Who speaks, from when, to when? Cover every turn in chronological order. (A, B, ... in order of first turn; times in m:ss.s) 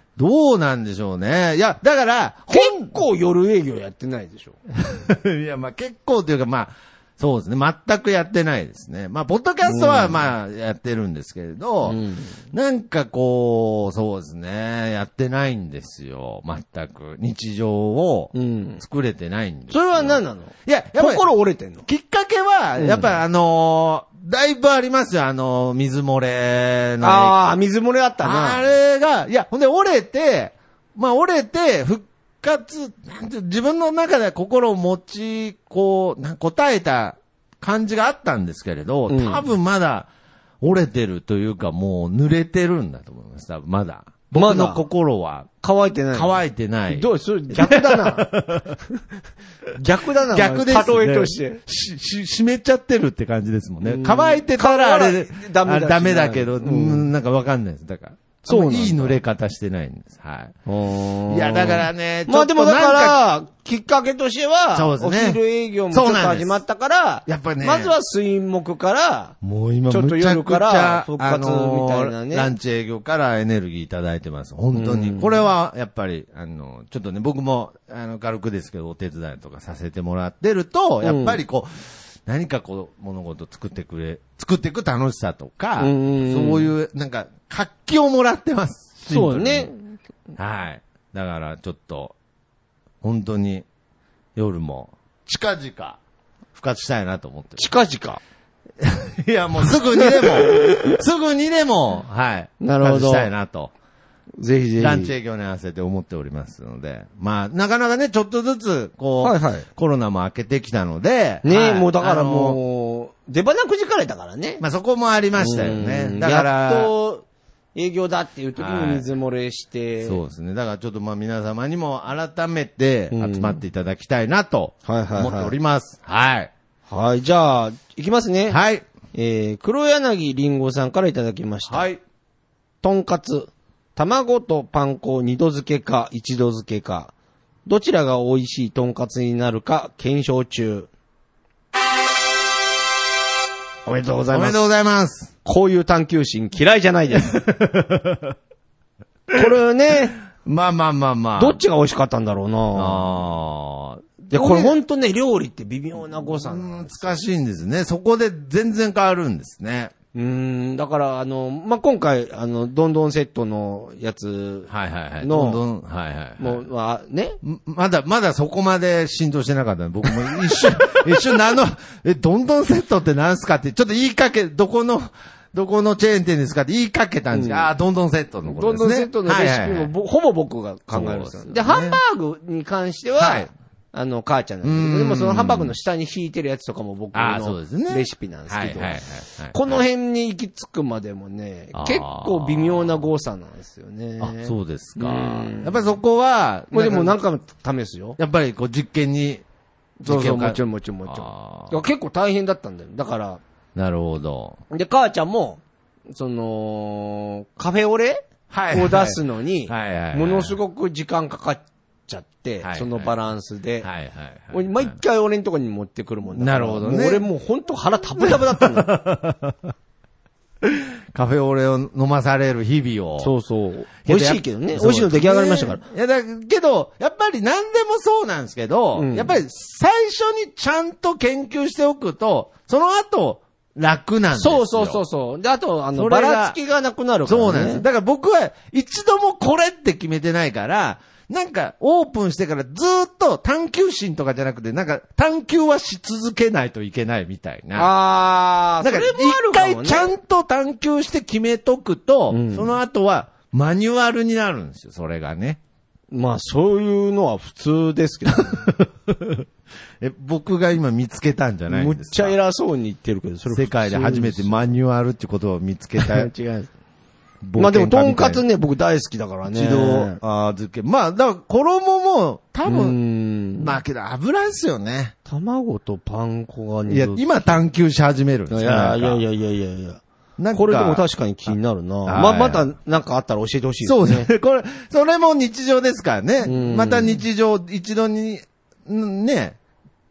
0:00.2-0:03.0 A
0:02.5-0:04.6 B
0:04.8-0:12.0 A
0:09.6-0:10.2 B
0:11.8-0:12.3 B
0:12.5-0:21.2 A
0:18.3-0:18.8 B
0:19.7-0:21.9 B
0:21.8-0:27.4 A
0:22.8-0:23.1 B
0:27.0-0:28.6 B
0:28.2-0:40.1 A
0:39.1-0:39.4 B
0:40.6-0:45.5 A
0:44.3-0:44.8 B
0:45.6-0:48.3 B
0:46.1-0:48.8 A
0:49.8-0:51.6 B
0:50.3-1:00.6 A
0:53.8-0:57.1 B
0:58.4-0:59.2 B
1:00.7-1:09.4 B
1:01.3-1:03.2 A
1:04.7-1:06.6 A
1:07.3-1:08.0 A
1:09.4-1:29.7 A
1:09.9-1:12.5 B
1:14.7-1:15.4 B
1:21.0-1:21.4 B
1:25.8-1:26.7 B
1:29.1-1:30.0 B
1:30.4-1:32.1 A
1:33.0-1:33.6 A
1:34.4-1:36.0 A
1:36.6-1:37.7 A
1:37.6-1:38.2 B
1:38.8-1:43.7 A
1:40.0-1:41.0 B
1:42.6-1:43.3 B
1:44.4-1:45.1 B
1:44.8-1:52.6 A
1:49.2-1:49.7 B
1:51.4-1:54.6 B
1:54.6-1:56.9 A
1:55.4-1:57.2 B
1:57.8-2:00.2 B
1:58.6-1:59.1 A
2:00.0-2:06.5 A
2:03.1-2:03.6 B
2:04.9-2:05.5 B
2:06.9-2:08.6 B
2:08.5-2:08.8 A
2:09.1-2:11.9 B
2:11.7-2:12.0 A
2:12.8-2:17.1 B
2:17.7-2:20.9 B
2:23.9-2:24.6 B
2:24.3-2:25.3 A
2:25.4-2:27.4 B
2:27.3-2:28.3 A
2:29.3-2:30.2 B
2:30.3-2:31.6 A
2:31.4-2:33.1 B
2:32.8-2:34.7 A
2:34.3-2:37.2 B
2:36.4-2:39.9 A
2:40.1-2:45.6 B
2:44.7-2:46.6 A
2:46.4-2:47.4 B
2:47.4-2:59.9 A
2:50.2-2:51.0 B
2:57.3-2:57.7 B
2:58.4-3:09.0 B
3:00.9-3:02.0 A
3:03.2-3:03.5 A
3:04.6-3:05.8 A
3:07.1-3:09.8 A
3:09.5-3:16.0 B
3:11.7-3:13.0 A
3:14.2-3:17.2 A
3:16.7-3:18.2 B
3:18.2-3:19.4 A
3:20.0-3:23.4 B
3:20.1-3:21.8 A
3:23.8-3:24.6 A
3:24.7-3:25.6 B
3:26.1-3:33.9 B
3:28.5-3:30.6 A
3:32.6-3:33.1 A
3:33.8-3:35.0 A
3:34.5-3:38.9 B
3:36.4-3:37.3 A
3:38.2-3:39.7 A
3:40.6-3:43.3 A
3:43.2-3:45.8 B
3:44.0-3:55.0 A
3:49.0-3:49.4 B
3:54.3-3:57.8 B
3:56.0-3:56.6 A
3:57.3-4:07.9 A
4:07.8-4:10.1 B
4:08.8-4:15.6 A
4:12.3-4:12.8 B
4:16.1-4:18.7 B
4:18.5-4:19.5 A
4:20.0-4:22.4 A
4:21.7-4:24.7 B
4:23.5-4:26.3 A
4:26.0-4:26.7 B
4:27.4-4:28.4 A
4:27.6-4:30.2 B
4:29.5-4:33.0 A
4:32.6-4:33.7 B
4:33.6-4:35.1 A
4:35.3-4:37.6 B
4:36.9-4:39.2 A
4:38.5-4:40.0 B
4:40.4-4:41.0 A
4:40.5-4:44.3 B
4:42.1-4:42.7 A
4:43.8-4:49.6 A
4:46.4-4:47.2 B